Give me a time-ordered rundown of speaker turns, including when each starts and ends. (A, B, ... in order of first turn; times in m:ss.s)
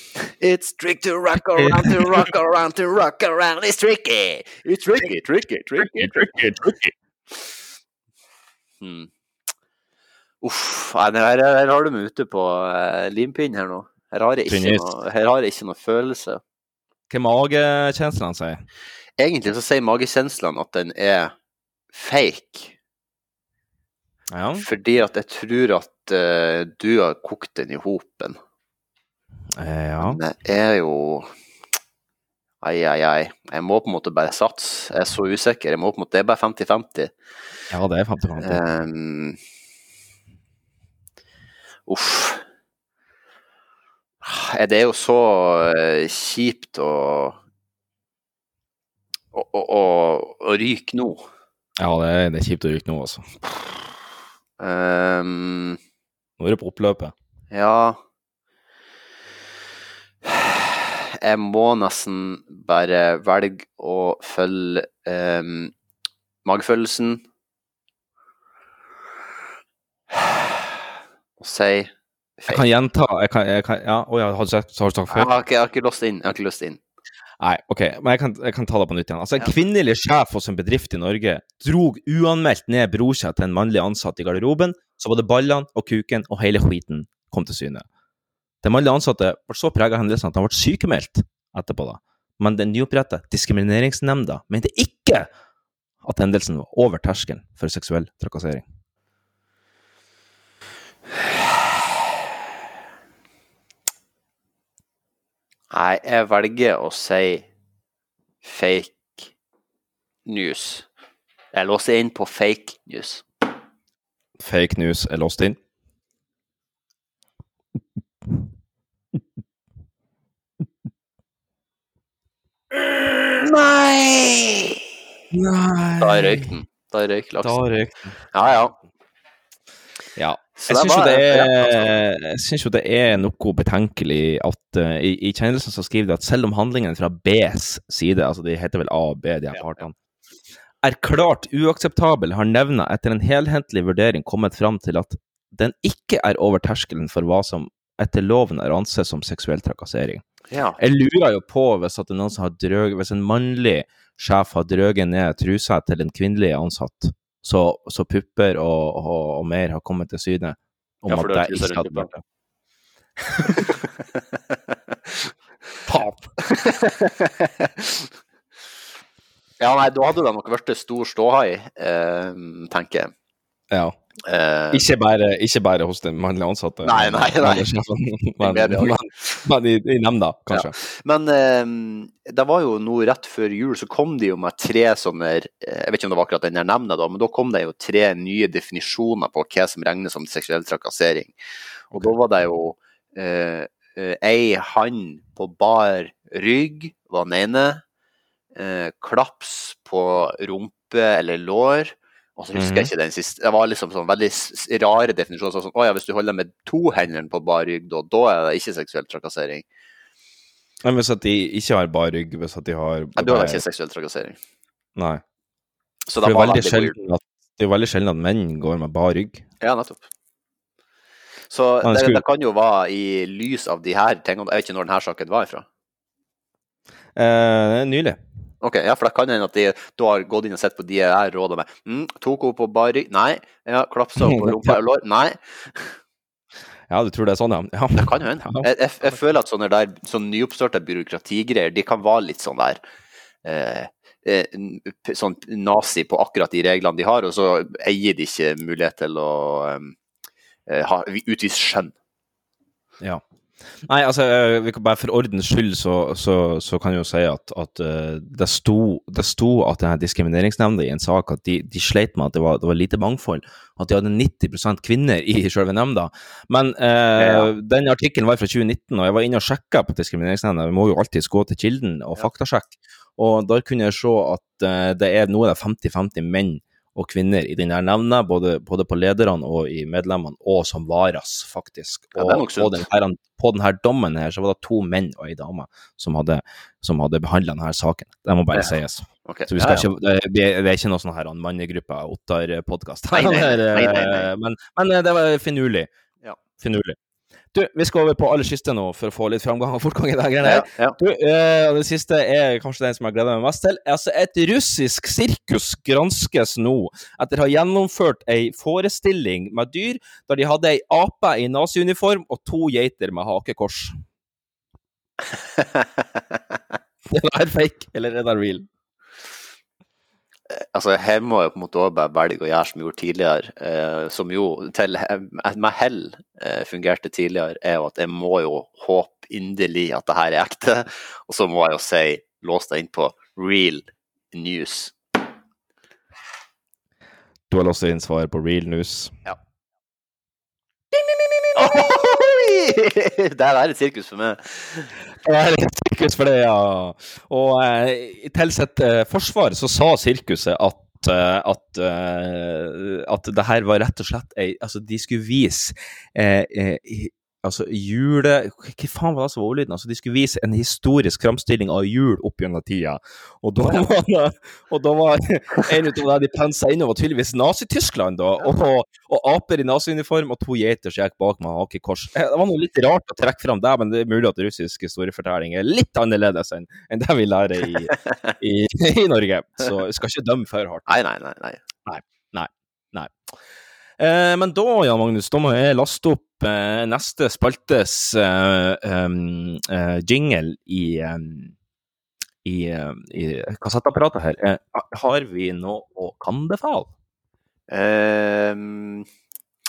0:00.2-0:06.3 A
0:01.6-0:02.3 B
0:05.8-0:06.9 B
0:08.8-0:09.1 A
0:10.4-0:16.4 A
0:14.5-0:14.9 B
0:17.1-0:18.6 B
0:19.2-0:21.3 A
0:21.9-0:22.7 A
0:24.3-0:24.6 B
0:24.6-0:28.4 A
0:29.6-0:30.2 B
0:30.0-0:31.3 A
0:32.6-0:37.1 A
0:37.7-0:38.6 B
0:38.4-0:39.4 A
0:41.9-0:42.4 A
0:44.2-0:47.4 A
0:49.3-0:51.3 A
0:51.8-0:53.3 B
0:54.6-0:55.8 A
0:56.4-0:57.1 B
0:57.5-0:58.0 A
1:00.2-1:05.7 A
1:06.4-1:07.2 A
1:10.1-1:10.8 A
1:11.4-1:12.6 A
1:12.5-1:15.3 B
1:15.1-1:16.8 A
1:17.4-1:27.8 B
1:28.6-1:35.3 B
1:36.0-1:38.6 B
1:45.7-1:47.5 A
1:48.4-1:49.3 A
1:50.2-1:50.8 A
1:51.5-1:53.2 A
1:54.4-1:55.6 B
2:03.4-2:04.8 A
2:05.3-2:06.5 B
2:06.0-2:07.6 A
2:07.4-2:08.2 B
2:08.3-2:08.7 A
2:10.2-2:19.9 B
2:10.6-2:11.9 A
2:20.8-2:30.2 B
2:30.5-2:30.8 A
2:30.8-2:42.2 B
2:41.1-2:42.1 A
2:45.8-2:46.3 B
2:46.4-2:48.1 A
2:49.6-2:53.1 A
2:53.7-2:54.0 B
2:54.2-2:54.8 A
2:54.7-3:00.7 B
2:56.8-2:57.6 A
2:58.4-2:59.4 A
3:00.5-3:11.3 A
3:11.9-3:12.2 B
3:11.9-3:17.8 A
3:18.6-3:29.6 A
3:22.5-3:22.9 B
3:30.8-3:33.6 B
3:33.2-3:34.4 A
3:35.0-3:35.2 B
3:36.1-3:37.0 A
3:36.2-3:39.4 B
3:39.6-3:40.0 A
3:41.5-3:45.6 A
3:41.8-3:42.2 B
3:47.2-3:48.2 B
3:48.6-3:56.0 A
3:54.2-3:54.8 B
3:56.9-3:59.2 B
3:58.0-4:02.8 A
4:03.4-4:09.9 A
4:10.7-4:11.9 A
4:13.8-4:55.9 B
4:27.2-4:27.5 A
4:42.1-4:42.8 A
4:48.5-4:49.8 A
4:53.1-4:54.3 A
4:56.6-4:57.0 B
4:57.5-5:14.0 B
5:00.4-5:01.0 A
5:15.6-5:15.8 A
5:17.1-5:18.7 B
5:20.5-5:34.9 A
5:37.5-5:39.2 B
5:41.5-5:44.9 A
5:45.2-6:20.8 B
6:20.9-6:21.6 A
6:21.8-6:23.1 B
6:24.0-6:31.5 B
6:32.4-6:36.9 B
6:37.7-6:39.0 A